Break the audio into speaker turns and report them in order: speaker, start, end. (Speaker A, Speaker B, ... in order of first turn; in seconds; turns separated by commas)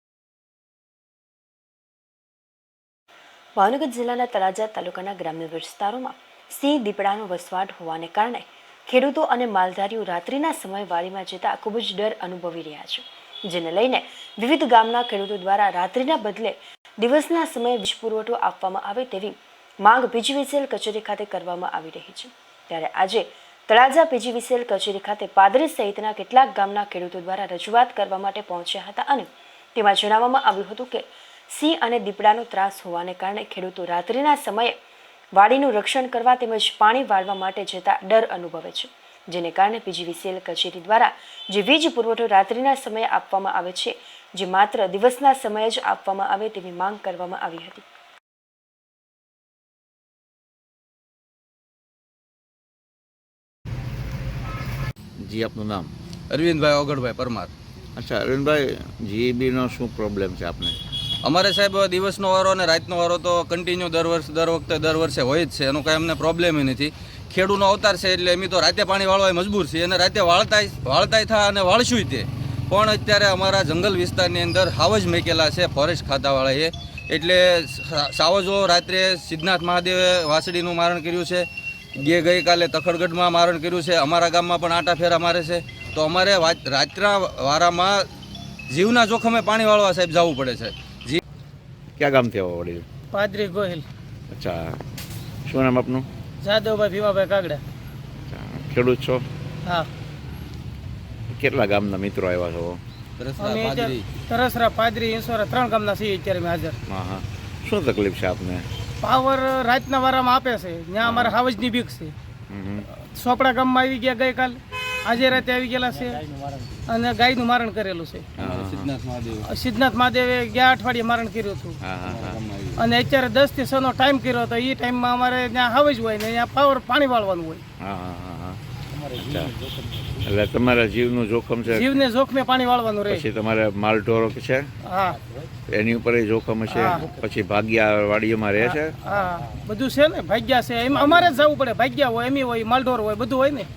Speaker A: 3.6-34.8, Speaker A: 35.3-47.8, Speaker B: 55.2-55.9, Speaker C: 56.3-57.5, Speaker B: 58.0-60.8, Speaker C: 61.2-88.1, Speaker C: 88.7-91.2, Speaker B: 92.0-92.8, Speaker D: 93.1-93.8, Speaker B: 94.3-94.8, Speaker B: 95.5-96.1, Speaker D: 96.4-97.6, Speaker B: 98.3-99.3, Speaker B: 101.3-102.8, Speaker C: 103.2-104.0, Speaker D: 103.4-106.8, Speaker B: 106.9-108.7, Speaker D: 109.0-112.1, Speaker B: 111.0-111.4, Speaker B: 112.5-112.9, Speaker D: 113.0-116.2, Speaker D: 116.8-118.3, Speaker B: 118.4-118.9, Speaker C: 118.4-119.5, Speaker D: 119.5-121.8, Speaker B: 121.8-122.4, Speaker C: 122.0-122.8, Speaker D: 122.8-127.6, Speaker B: 127.8-128.6, Speaker B: 129.2-129.6, Speaker B: 130.2-131.9, Speaker D: 131.7-133.2, Speaker B: 133.1-134.7, Speaker D: 134.8-135.2, Speaker B: 135.7-138.9, Speaker D: 136.7-137.1, Speaker D: 138.6-143.7